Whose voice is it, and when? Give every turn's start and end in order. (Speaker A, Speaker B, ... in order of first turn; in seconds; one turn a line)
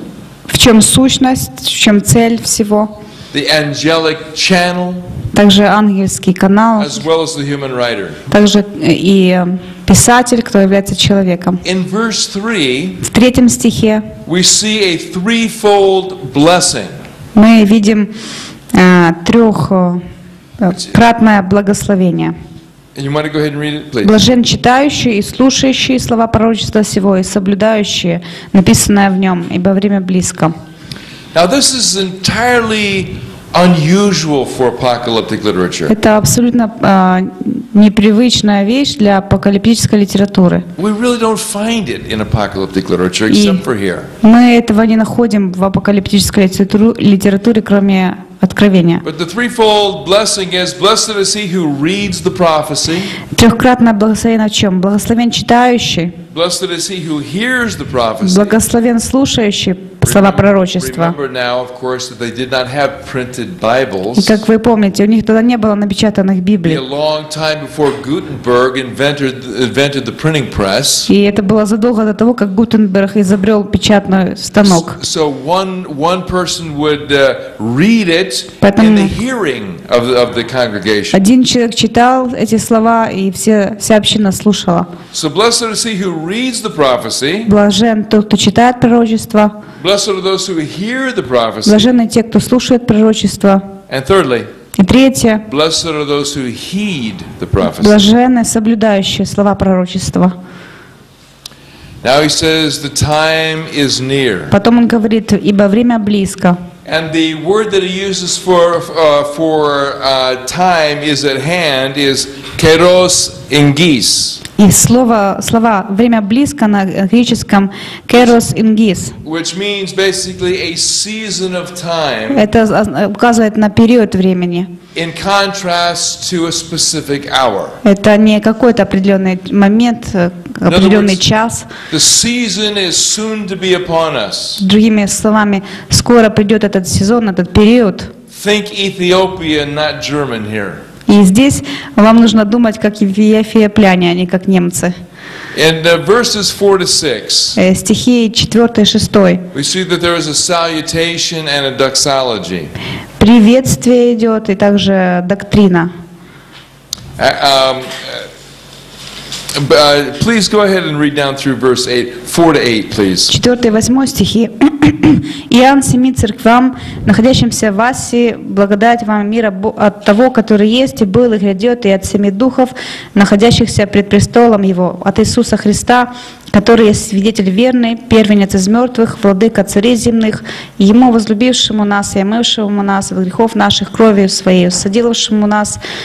Speaker A: 0.5-3.0
Speaker B: 3.3-5.1
Speaker A: 5.3-7.0
Speaker B: 6.8-8.2
Speaker A: 8.3-11.6
Speaker B: 11.6-13.0
Speaker A: 13.0-14.1
Speaker B: 14.2-16.9
Speaker A: 17.3-18.1
Speaker A: 18.7-20.0
Speaker A: 20.6-22.3
Speaker B: 20.7-20.9
Speaker B: 22.9-24.2
Speaker A: 24.0-30.5
Speaker B: 31.3-35.9
Speaker A: 35.9-40.6
Speaker B: 40.8-44.1
Speaker A: 43.3-43.6
Speaker A: 44.2-49.0
Speaker B: 49.0-53.2
Speaker A: 53.3-56.1
Speaker B: 56.3-58.5
Speaker A: 58.2-61.1
Speaker B: 60.0-64.4
Speaker A: 64.1-66.8
Speaker B: 66.6-71.1
Speaker A: 71.1-75.0
Speaker B: 74.6-81.2
Speaker A: 78.6-79.1
Speaker A: 81.1-84.9
Speaker B: 85.1-87.5
Speaker A: 87.5-89.6
Speaker B: 89.8-91.9
Speaker A: 91.6-93.6
Speaker B: 93.9-94.5
Speaker A: 94.8-95.5
Speaker B: 95.5-98.0
Speaker A: 97.6-100.3
Speaker B: 102.0-104.5
Speaker A: 104.5-106.6
Speaker B: 106.8-114.4
Speaker A: 114.6-119.2
Speaker B: 119.2-122.5
Speaker A: 122.3-124.7
Speaker B: 124.9-127.8
Speaker A: 127.8-131.7
Speaker B: 130.7-131.2
Speaker B: 131.9-134.6
Speaker A: 134.6-138.1
Speaker B: 138.3-140.8
Speaker A: 141.1-144.9
Speaker B: 145.5-147.6
Speaker A: 147.6-149.4
Speaker B: 149.5-152.7
Speaker A: 153.2-155.9
Speaker B: 157.2-158.2
Speaker B: 159.5-163.3
Speaker A: 163.3-185.8